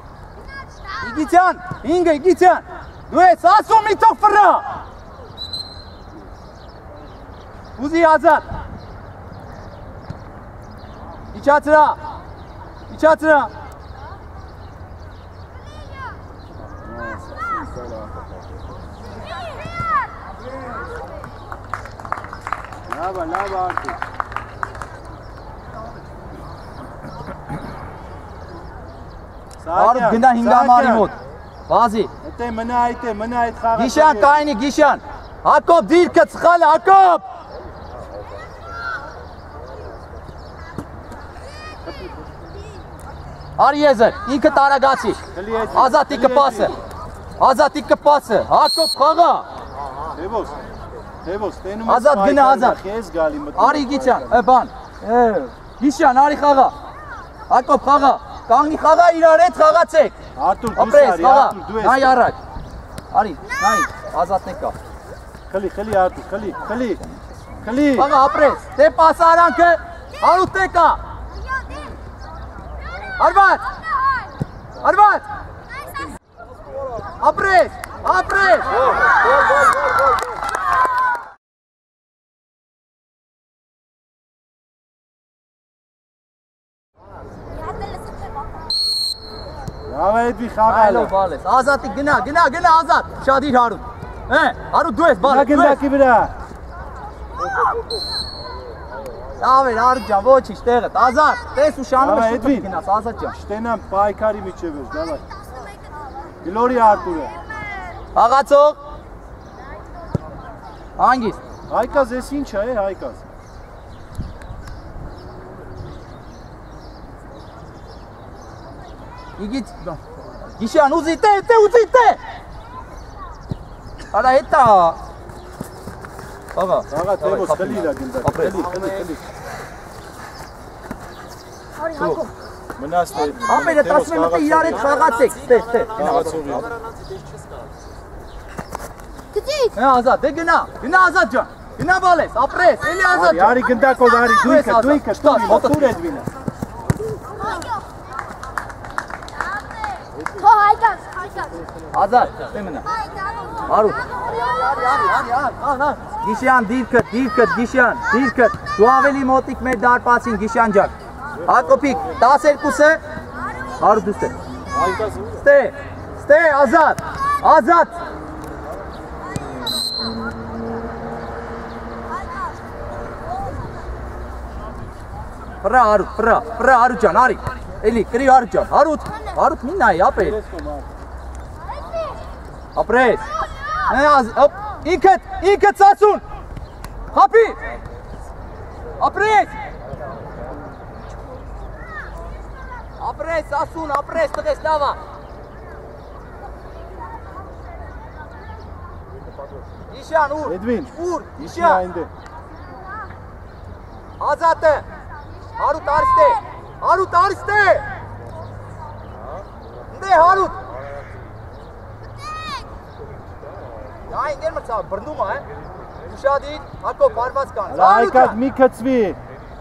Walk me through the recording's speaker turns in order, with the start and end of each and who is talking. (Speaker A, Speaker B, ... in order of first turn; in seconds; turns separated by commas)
Speaker A: 1.0-4.8, Speaker A: 7.8-8.5, Speaker A: 11.3-12.0, Speaker A: 12.9-13.5, Speaker B: 16.9-18.1, Speaker B: 22.9-24.0, Speaker B: 29.6-31.1, Speaker A: 29.7-31.2, Speaker A: 31.7-32.1, Speaker B: 32.2-34.5, Speaker A: 33.8-37.2, Speaker B: 41.9-42.1, Speaker A: 43.6-45.2, Speaker B: 45.3-46.7, Speaker A: 45.7-46.8, Speaker A: 47.4-49.5, Speaker C: 49.7-50.7, Speaker B: 50.1-50.5, Speaker B: 51.2-54.5, Speaker A: 51.9-52.8, Speaker A: 53.5-56.7, Speaker A: 57.5-60.1, Speaker B: 60.4-62.2, Speaker A: 60.8-62.4, Speaker A: 63.1-64.8, Speaker B: 65.5-67.0, Speaker B: 67.6-68.1, Speaker A: 67.9-71.0, Speaker A: 73.2-73.7, Speaker A: 74.8-75.3, Speaker A: 77.2-79.1, Speaker C: 79.1-79.9, Speaker B: 89.9-91.1, Speaker A: 90.7-95.8, Speaker B: 95.2-96.3, Speaker A: 99.4-103.4, Speaker B: 102.0-102.7, Speaker B: 103.3-105.2, Speaker B: 106.4-107.3, Speaker A: 108.2-108.8, Speaker A: 111.0-111.4, Speaker B: 111.7-113.2, Speaker A: 119.4-122.2, Speaker A: 124.1-125.0, Speaker A: 126.5-128.7, Speaker B: 126.9-129.3, Speaker C: 128.6-129.1, Speaker A: 131.8-132.3, Speaker B: 132.8-135.0, Speaker A: 133.4-136.6, Speaker C: 134.7-137.7, Speaker B: 135.9-136.7, Speaker A: 139.7-143.6, Speaker B: 143.1-146.3, Speaker A: 144.4-146.0, Speaker B: 150.1-150.7, Speaker C: 150.6-151.3, Speaker A: 151.9-152.9, Speaker A: 153.7-160.9, Speaker B: 161.4-162.2, Speaker A: 161.5-163.0, Speaker A: 163.8-164.3, Speaker B: 164.7-165.5, Speaker A: 165.4-167.9, Speaker A: 175.6-180.4, Speaker B: 180.1-180.9, Speaker A: 182.8-183.2, Speaker A: 183.9-186.2, Speaker A: 187.1-187.6, Speaker A: 189.0-189.6, Speaker A: 193.0-195.0, Speaker C: 199.2-199.8, Speaker A: 199.9-201.8, Speaker B: 200.5-202.1, Speaker A: 204.2-204.9, Speaker A: 205.6-207.8, Speaker A: 209.9-210.6, Speaker A: 214.1-215.4, Speaker A: 216.1-218.4, Speaker B: 217.7-219.2